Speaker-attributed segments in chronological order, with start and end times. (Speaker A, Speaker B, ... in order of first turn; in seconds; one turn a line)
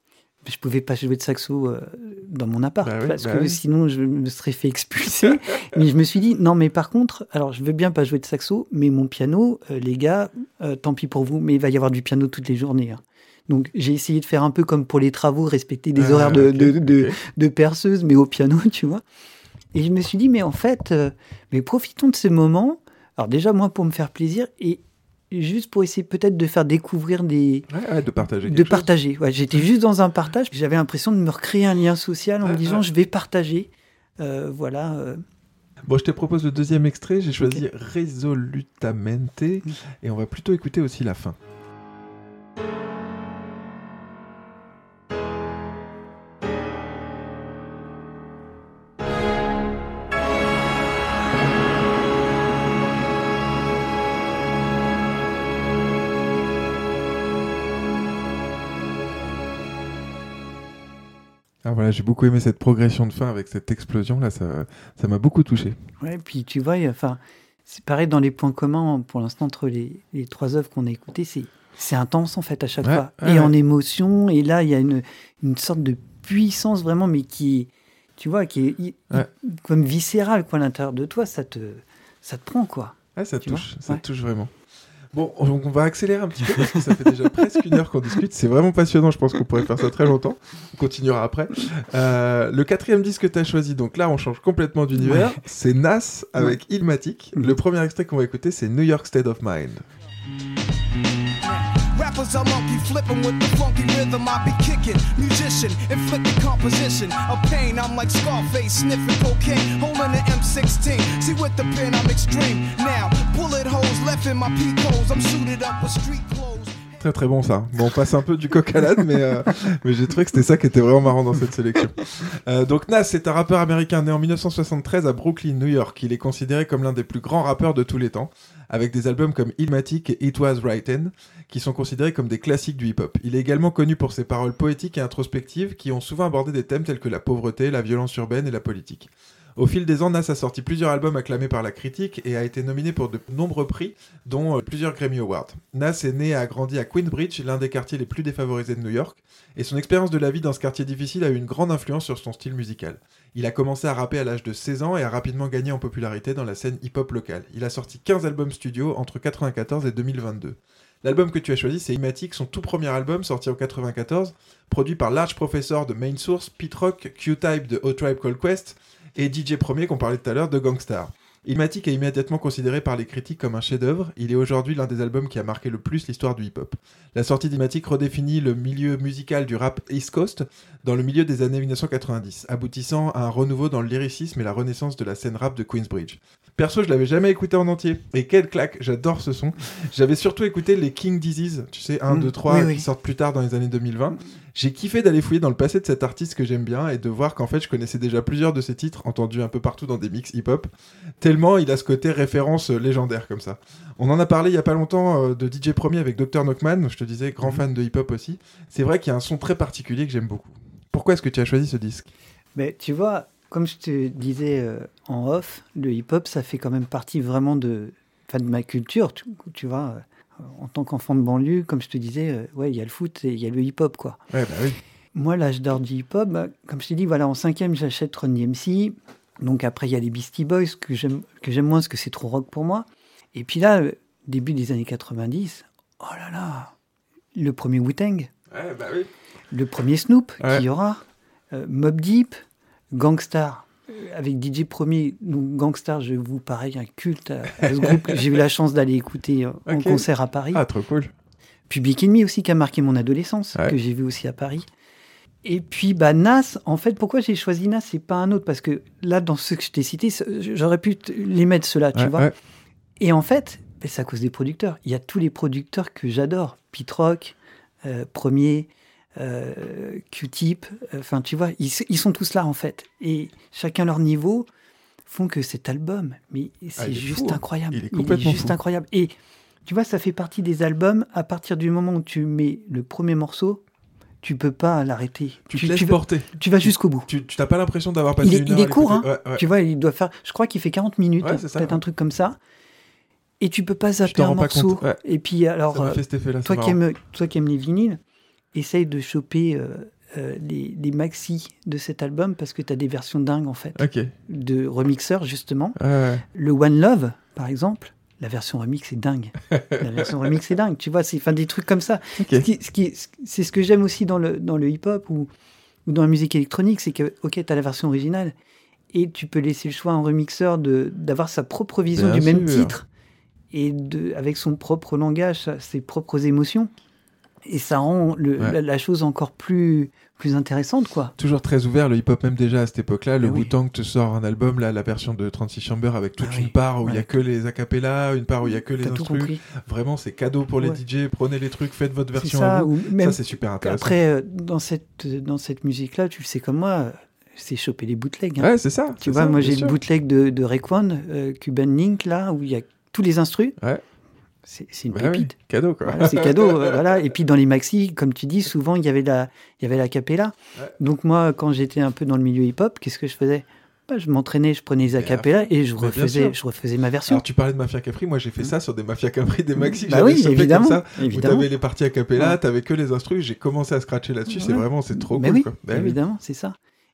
Speaker A: 0.4-19.0
Speaker B: 2.8-3.6
Speaker B: 15.9-17.2
Speaker A: 19.7-27.7
Speaker B: 27.7-28.9
Speaker A: 28.4-35.2
Speaker B: 32.4-32.8
Speaker B: 35.8-41.4
Speaker B: 61.6-65.8
Speaker A: 66.0-84.0
Speaker B: 72.8-73.5
Speaker B: 83.2-84.5
Speaker B: 85.1-99.8
Speaker A: 86.5-86.8
Speaker A: 95.0-95.3
Speaker C: 101.9-117.0
Speaker B: 117.0-212.1
Speaker A: 192.1-192.9
Speaker A: 212.5-224.2
Speaker B: 224.3-224.8
Speaker A: 225.1-236.7
Speaker A: 237.3-238.3
Speaker B: 238.5-239.1
Speaker A: 239.5-242.4
Speaker A: 242.9-250.6
Speaker B: 247.6-248.2
Speaker B: 249.7-251.1
Speaker A: 251.7-254.7
Speaker A: 255.4-262.3
Speaker B: 261.9-262.3
Speaker A: 263.0-274.5
Speaker A: 275.1-279.1
Speaker B: 276.8-278.6
Speaker A: 279.6-283.6
Speaker A: 284.2-287.1
Speaker B: 285.5-286.3
Speaker B: 287.1-289.4
Speaker A: 288.2-292.4
Speaker B: 291.2-291.8
Speaker A: 293.4-298.0
Speaker B: 294.0-295.0
Speaker B: 295.7-296.8
Speaker A: 298.5-305.8
Speaker B: 303.8-304.1
Speaker B: 305.8-306.2
Speaker A: 306.3-315.3
Speaker B: 312.2-312.4
Speaker A: 315.9-318.3
Speaker A: 318.9-322.9
Speaker B: 321.9-322.7
Speaker A: 323.5-326.7
Speaker A: 327.4-331.1
Speaker B: 331.2-344.0
Speaker A: 333.2-333.5
Speaker A: 336.2-337.1
Speaker A: 338.8-339.4
Speaker A: 342.2-353.6
Speaker B: 348.4-349.8
Speaker A: 354.4-367.2
Speaker B: 354.9-356.8
Speaker B: 364.9-366.4
Speaker B: 367.1-376.0
Speaker A: 369.7-371.5
Speaker A: 374.3-376.6